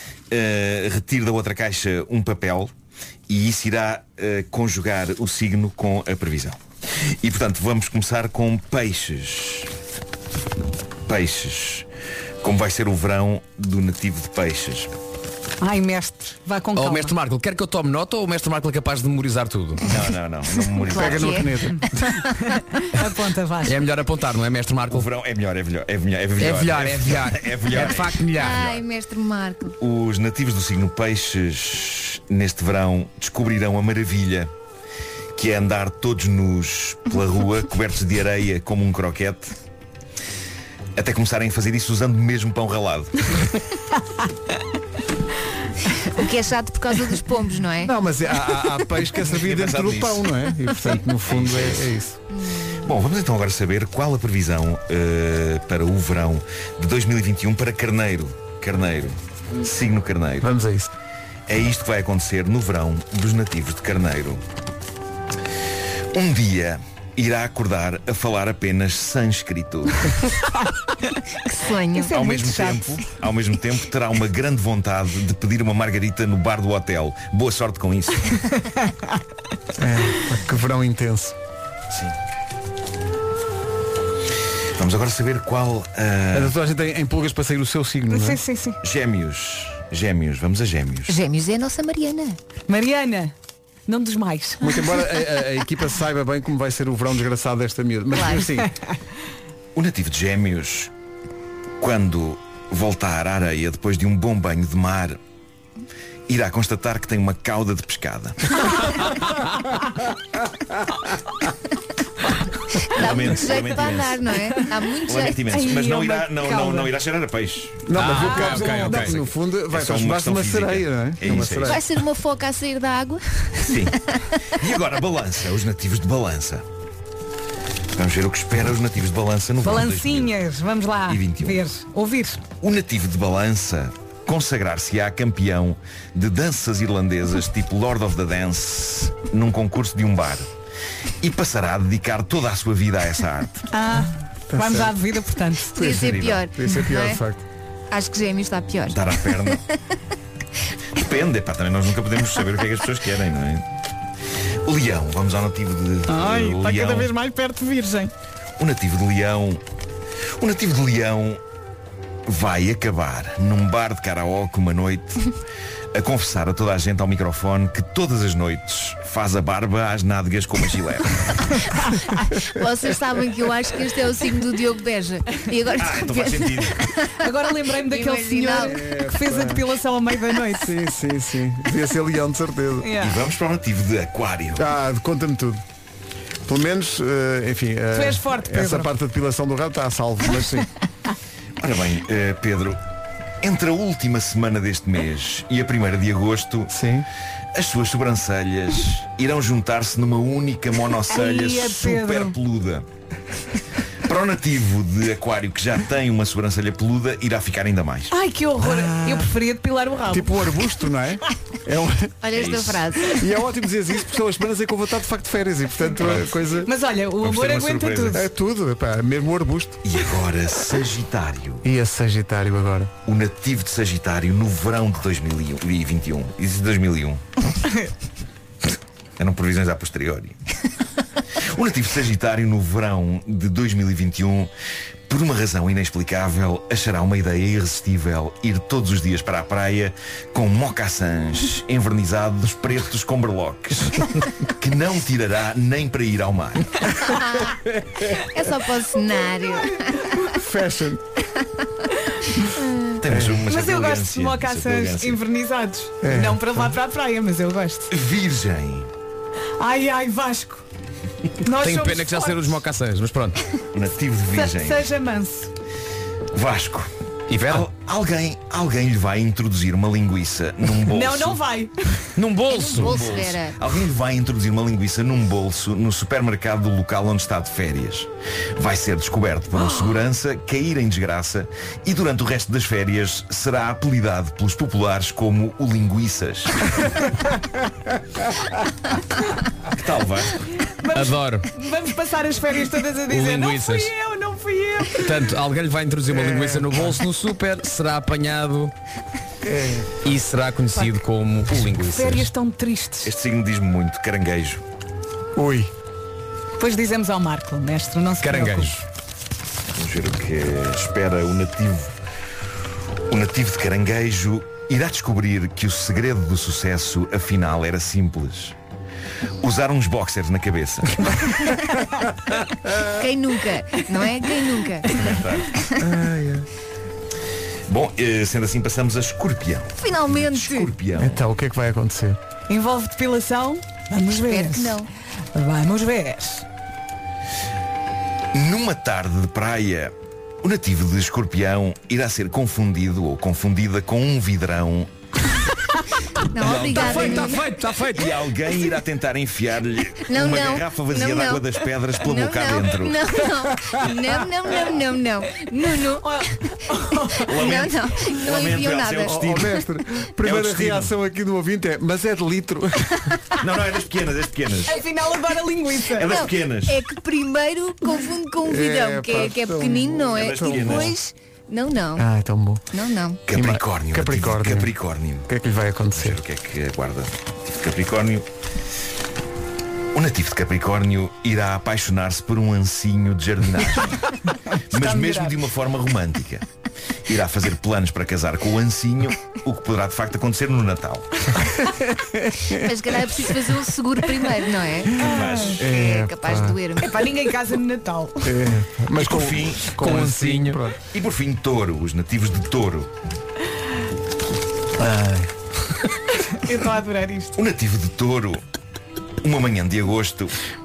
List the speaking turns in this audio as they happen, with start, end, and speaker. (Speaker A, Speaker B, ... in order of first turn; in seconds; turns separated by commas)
Speaker A: 0.3-2.7, Speaker A: 3.3-6.6, Speaker A: 7.2-9.7, Speaker A: 11.1-11.9, Speaker A: 12.4-14.9, Speaker B: 15.6-17.1, Speaker C: 16.8-19.9, Speaker A: 19.8-21.4, Speaker D: 20.8-21.8, Speaker E: 20.9-22.0, Speaker B: 22.8-23.8, Speaker C: 23.6-25.1, Speaker A: 24.9-28.8, Speaker C: 26.4-28.7, Speaker D: 28.4-29.8, Speaker A: 29.8-34.5, Speaker A: 35.4-39.5, Speaker A: 41.0-43.3, Speaker D: 46.1-47.9, Speaker E: 47.9-52.2, Speaker A: 49.2-50.3, Speaker A: 51.2-51.9, Speaker D: 52.4-52.9, Speaker A: 52.8-60.5, Speaker E: 60.4-60.9, Speaker A: 61.5-64.4, Speaker A: 66.1-70.1, Speaker D: 71.5-72.2, Speaker B: 71.9-73.0, Speaker A: 72.1-78.4, Speaker E: 79.8-81.4, Speaker A: 84.8-86.5, Speaker E: 86.3-88.4, Speaker B: 88.1-88.8, Speaker A: 88.8-91.2, Speaker D: 91.1-92.4, Speaker B: 92.7-93.3, Speaker B: 93.9-94.8, Speaker E: 94.6-98.7, Speaker D: 98.1-98.4, Speaker A: 99.8-100.9, Speaker A: 101.8-105.2, Speaker A: 106.3-108.6, Speaker D: 112.9-115.7, Speaker A: 113.0-114.3, Speaker A: 115.1-118.1, Speaker B: 115.5-116.9, Speaker E: 117.9-121.8, Speaker C: 117.9-119.2, Speaker B: 118.1-119.0, Speaker A: 118.9-121.8, Speaker D: 121.7-124.0, Speaker A: 123.6-124.0, Speaker A: 124.6-126.7, Speaker A: 127.9-130.3, Speaker B: 129.6-132.4, Speaker A: 131.1-131.6, Speaker A: 132.6-140.5, Speaker A: 141.2-143.7, Speaker B: 143.7-145.8, Speaker E: 144.5-144.9, Speaker E: 145.7-147.4, Speaker D: 145.8-147.2, Speaker A: 145.9-146.4, Speaker D: 147.9-149.6, Speaker A: 148.9-149.6, Speaker A: 151.0-153.6, Speaker A: 154.7-157.1, Speaker B: 156.1-158.1, Speaker A: 158.6-159.6, Speaker A: 160.4-161.4, Speaker A: 162.3-165.2, Speaker A: 165.9-171.2, Speaker D: 171.8-177.1, Speaker A: 175.8-176.8, Speaker B: 177.2-180.8, Speaker D: 177.7-178.8, Speaker E: 178.6-179.6, Speaker E: 180.5-182.9, Speaker B: 182.8-183.2, Speaker A: 183.0-184.7, Speaker E: 184.6-185.6, Speaker E: 186.5-190.7, Speaker B: 187.9-188.9, Speaker A: 191.6-192.8, Speaker A: 193.4-196.7, Speaker E: 196.7-197.1, Speaker A: 197.5-202.9, Speaker B: 201.1-202.4, Speaker A: 204.1-208.1, Speaker B: 208.1-210.5, Speaker E: 208.6-209.3, Speaker E: 210.1-212.1, Speaker D: 212.2-213.2, Speaker A: 212.3-212.8, Speaker E: 213.0-216.7, Speaker A: 216.0-216.3, Speaker B: 216.6-218.2, Speaker A: 217.2-218.2, Speaker E: 218.1-219.8, Speaker A: 219.8-221.7, Speaker E: 221.6-222.9, Speaker A: 223.1-227.2, Speaker A: 229.2-230.4, Speaker A: 231.5-234.5, Speaker A: 235.1-246.9, Speaker D: 247.1-247.5, Speaker D: 248.2-250.1, Speaker E: 250.2-251.0, Speaker A: 253.0-255.2, Speaker E: 253.1-253.4, Speaker B: 253.4-257.9, Speaker E: 256.0-256.7, Speaker A: 257.9-258.9, Speaker B: 259.6-260.6, Speaker B: 261.4-262.6, Speaker C: 261.6-263.4, Speaker A: 263.7-264.9, Speaker B: 264.3-265.5, Speaker A: 266.3-266.9, Speaker C: 267.3-267.7, Speaker A: 267.4-271.4, Speaker B: 270.8-272.0, Speaker C: 272.2-273.0, Speaker D: 272.5-273.6, Speaker A: 272.8-286.7, Speaker A: 289.7-290.4, Speaker B: 290.8-295.3, Speaker C: 290.9-291.5, Speaker C: 293.1-293.9, Speaker C: 295.0-298.7, Speaker E: 296.1-296.9, Speaker E: 299.4-299.9, Speaker C: 300.0-302.3, Speaker B: 301.8-303.1, Speaker A: 303.0-304.6, Speaker E: 305.4-305.7, Speaker B: 306.6-308.8, Speaker C: 308.2-308.8, Speaker A: 309.8-311.9, Speaker A: 313.1-318.6, Speaker A: 319.4-321.1, Speaker D: 322.9-325.1, Speaker A: 325.0-325.5, Speaker E: 325.8-326.5, Speaker A: 327.7-331.2, Speaker D: 329.8-330.7, Speaker E: 331.0-332.2, Speaker B: 332.5-334.8, Speaker D: 334.2-334.9, Speaker B: 335.3-336.5, Speaker A: 338.3-344.9, Speaker D: 346.3-347.4, Speaker A: 346.4-347.4, Speaker C: 346.7-348.2, Speaker B: 346.7-347.5, Speaker A: 347.9-353.1, Speaker D: 350.1-356.1, Speaker B: 355.4-357.4, Speaker D: 357.2-359.2, Speaker A: 357.3-359.6, Speaker E: 359.0-363.1, Speaker A: 360.2-360.9, Speaker A: 363.4-364.8, Speaker B: 364.7-366.2, Speaker A: 365.9-366.8, Speaker D: 366.0-372.1, Speaker E: 368.4-370.9, Speaker A: 370.2-370.9, Speaker E: 372.0-372.6, Speaker D: 372.7-373.2, Speaker A: 373.3-375.3, Speaker E: 373.3-374.7, Speaker E: 375.3-376.2, Speaker A: 375.9-378.3, Speaker A: 379.9-384.0, Speaker A: 384.7-386.4, Speaker B: 384.7-385.4, Speaker A: 387.1-391.3, Speaker E: 391.6-392.6, Speaker D: 392.5-397.1, Speaker B: 395.0-395.5, Speaker A: 395.0-395.6, Speaker E: 395.6-396.6, Speaker B: 396.8-398.4, Speaker E: 398.2-400.8, Speaker A: 398.9-399.8, Speaker C: 399.7-400.6, Speaker A: 400.8-402.9, Speaker E: 404.8-405.3, Speaker B: 406.4-407.4, Speaker A: 407.4-408.4, Speaker A: 409.2-410.4